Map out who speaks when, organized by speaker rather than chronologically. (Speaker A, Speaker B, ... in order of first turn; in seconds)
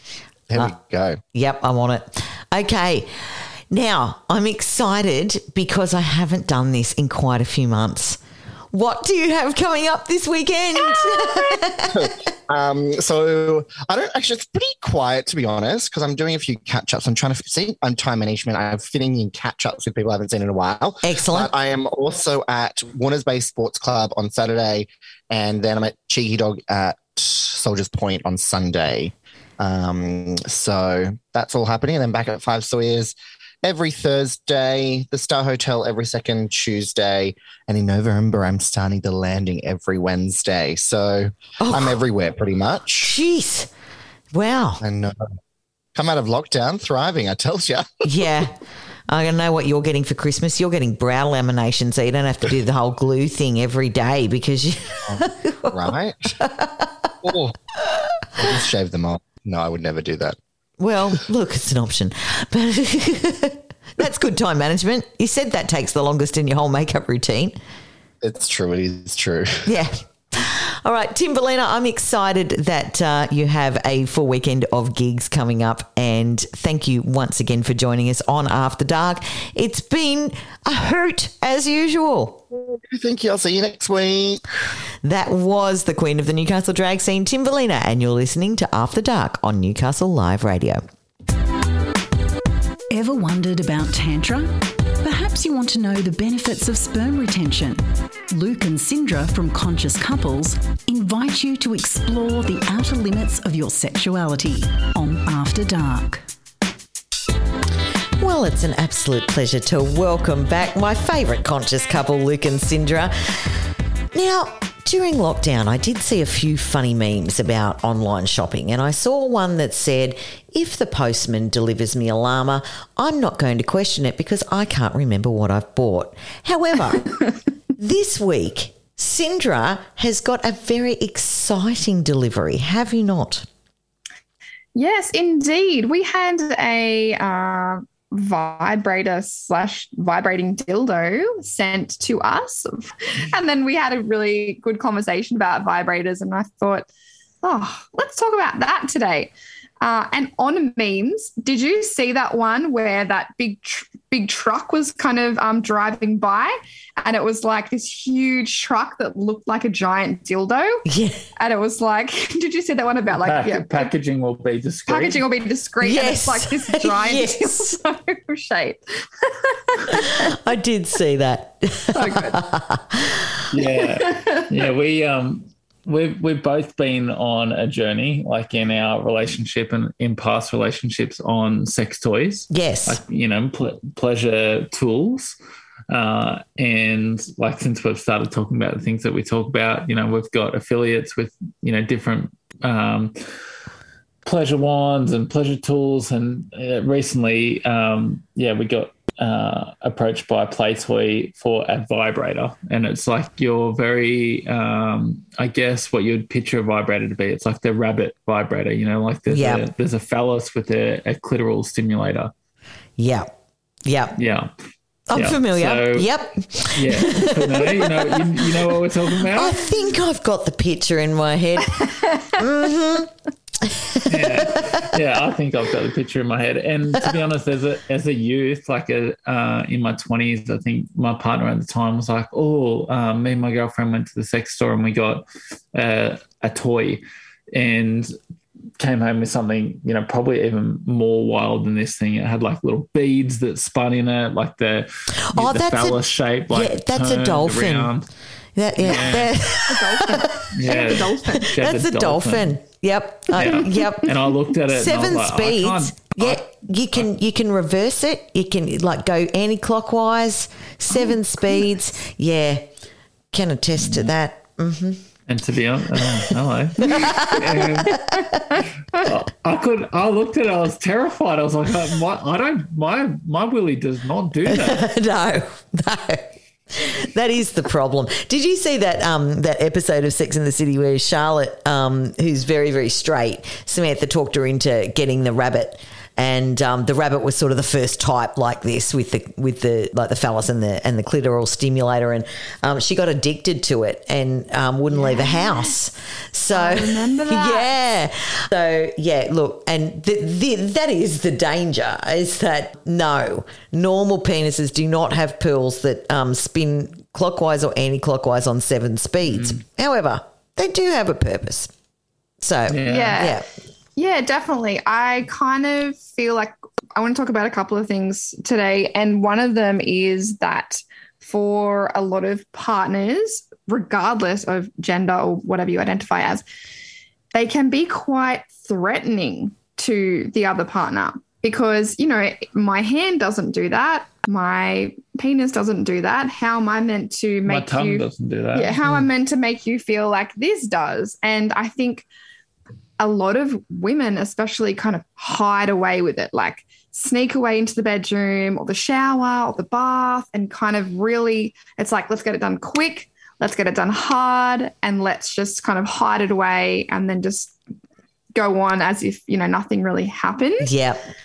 Speaker A: 0.5-1.2, 11.9-43.1, 44.8-45.2, 46.0-47.9, 55.0-56.3, 57.2-57.6, 58.4-60.4, 68.2-69.7, 82.5-84.4
Speaker B: 1.3-8.2, 8.7-12.1, 21.0-21.5, 41.6-42.0, 43.0-43.7, 44.3-44.8, 48.0-48.6, 49.1-57.1, 60.8-67.6, 69.7-82.4, 85.0-90.8, 108.2-113.6, 114.1-133.5, 160.9-161.2, 165.8-167.8, 169.9-173.4, 182.5-183.0, 209.3-209.6, 213.0-213.3, 213.8-214.2, 215.1-217.9, 219.3-224.5, 245.2-247.9, 248.6-250.8, 251.3-262.7, 263.3-265.0, 266.8-268.3, 274.5-311.7, 312.4-313.5, 360.6-361.1
Speaker C: 92.9-106.2
Speaker D: 134.7-146.9, 147.4-160.8, 161.4-163.9, 164.9-170.3, 171.9-172.4, 173.9-174.5, 221.8-222.1, 249.7-251.5, 268.0-268.4, 295.1-295.4, 296.5-297.7, 312.9-313.4, 314.0-326.4, 327.3-342.1, 343.0-357.6, 358.4-360.7
Speaker E: 163.1-165.3, 173.5-185.4, 185.9-193.2, 194.2-212.3, 214.2-214.5, 215.2-216.1, 216.7-219.7, 224.1-238.1, 238.8-248.1, 248.8-249.3, 250.5-252.6, 253.3-256.4, 263.8-264.1, 265.3-268.1, 268.9-274.9, 309.3-309.6, 312.7-313.3, 337.5-339.0